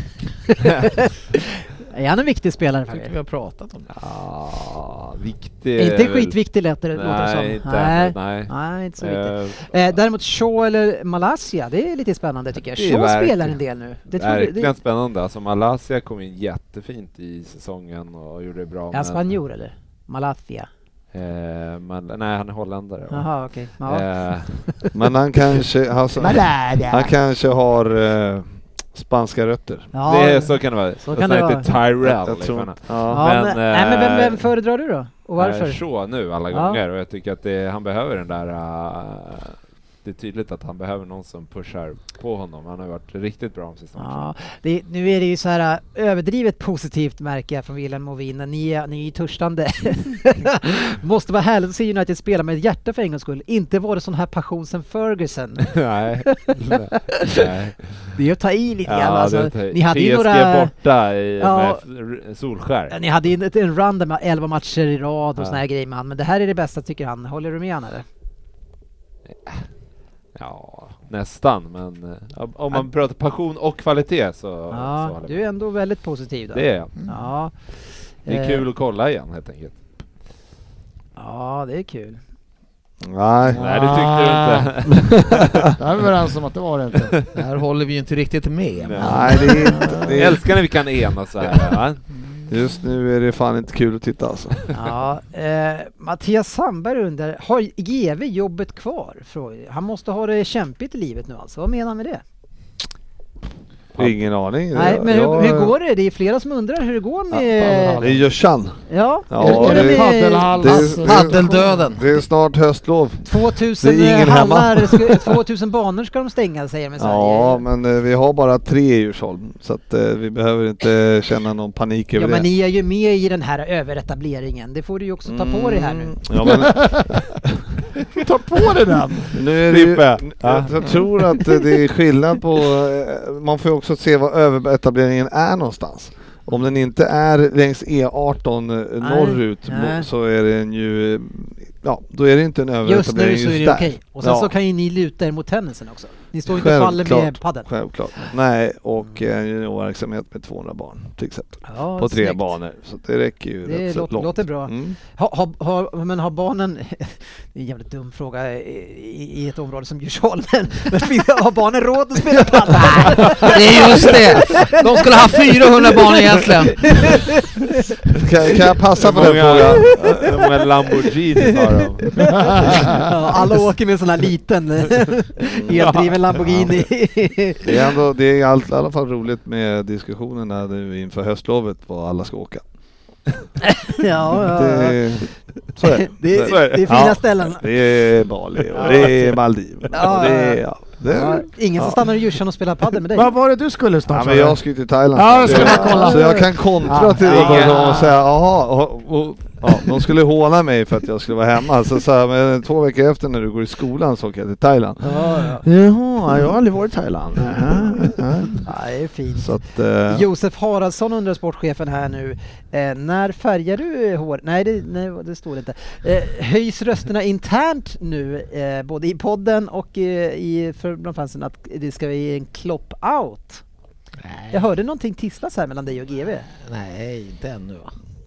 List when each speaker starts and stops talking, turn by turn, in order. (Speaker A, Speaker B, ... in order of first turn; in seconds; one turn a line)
Speaker A: 0.5-3.1
Speaker B: 2.9-3.9
Speaker C: 3.9-6.4
Speaker A: 5.8-14.7
Speaker C: 6.9-9.9
Speaker C: 12.6-13.6
Speaker C: 14.1-19.3
Speaker A: 18.9-20.7
Speaker C: 21.1-23.3
Speaker A: 23.1-24.9
Speaker C: 23.8-24.6
Speaker D: 24.9-29.9
Speaker A: 26.2-27.1
Speaker A: 29.9-31.7
Speaker C: 30.1-34.4
Speaker D: 32.0-33.2
Speaker A: 33.1-35.8
Speaker C: 35.4-44.2
Speaker A: 36.5-36.8
Speaker A: 44.0-57.4
Speaker C: 55.6-58.1
Speaker A: 58.1-60.7
Speaker C: 58.9-62.9
Speaker A: 61.4-61.8
Speaker A: 62.9-68.0
Speaker C: 70.3-75.4
Speaker A: 74.7-77.5
Speaker C: 76.5-77.0
Speaker A: 78.2-78.6
Speaker C: 78.2-79.8
Speaker A: 81.2-82.2
Speaker D: 83.0-83.6
Speaker E: 83.4-84.8
Speaker C: 83.5-85.1
Speaker D: 85.1-85.6
Speaker E: 85.7-87.2
Speaker B: 87.3-89.8
Speaker C: 88.8-89.3
Speaker D: 89.0-90.4
Speaker C: 90.0-92.0
Speaker D: 92.5-94.7
Speaker A: 94.7-102.2
Speaker D: 104.0-105.7
Speaker A: 104.7-108.1
Speaker E: 107.6-108.2
Speaker D: 108.0-113.3
Speaker A: 108.9-110.6
Speaker E: 109.4-111.6
Speaker B: 110.8-112.1
Speaker A: 113.2-117.6
Speaker D: 113.8-115.4
Speaker D: 117.0-122.5
Speaker A: 122.1-126.1
Speaker D: 125.3-127.4
Speaker E: 126.5-127.1
Speaker E: 128.1-129.4
Speaker D: 129.3-144.5
Speaker C: 129.7-130.9
Speaker A: 139.0-140.1
Speaker A: 142.8-147.7
Speaker D: 146.5-155.0
Speaker A: 151.7-152.5
Speaker A: 153.6-167.9
Speaker B: 163.2-167.1
Speaker D: 168.1-170.0
Speaker C: 169.0-173.1
Speaker A: 170.0-170.2
Speaker A: 172.1-177.9
Speaker E: 172.4-172.8
Speaker D: 175.5-176.7
Speaker C: 175.8-176.2
Speaker D: 177.6-182.6
Speaker A: 183.6-185.2
Speaker D: 184.2-192.0
Speaker A: 185.8-187.7
Speaker C: 186.4-186.9
Speaker A: 188.7-189.4
Speaker A: 189.9-193.3
Speaker E: 193.1-194.6
Speaker D: 194.1-208.7
Speaker E: 195.1-197.7
Speaker C: 195.4-196.0
Speaker A: 195.5-196.5
Speaker C: 197.2-198.1
Speaker A: 205.0-205.6
Speaker A: 208.6-209.5
Speaker D: 209.4-210.2
Speaker A: 210.1-223.6
Speaker B: 224.2-224.6
Speaker A: 224.5-226.5
Speaker B: 226.5-227.9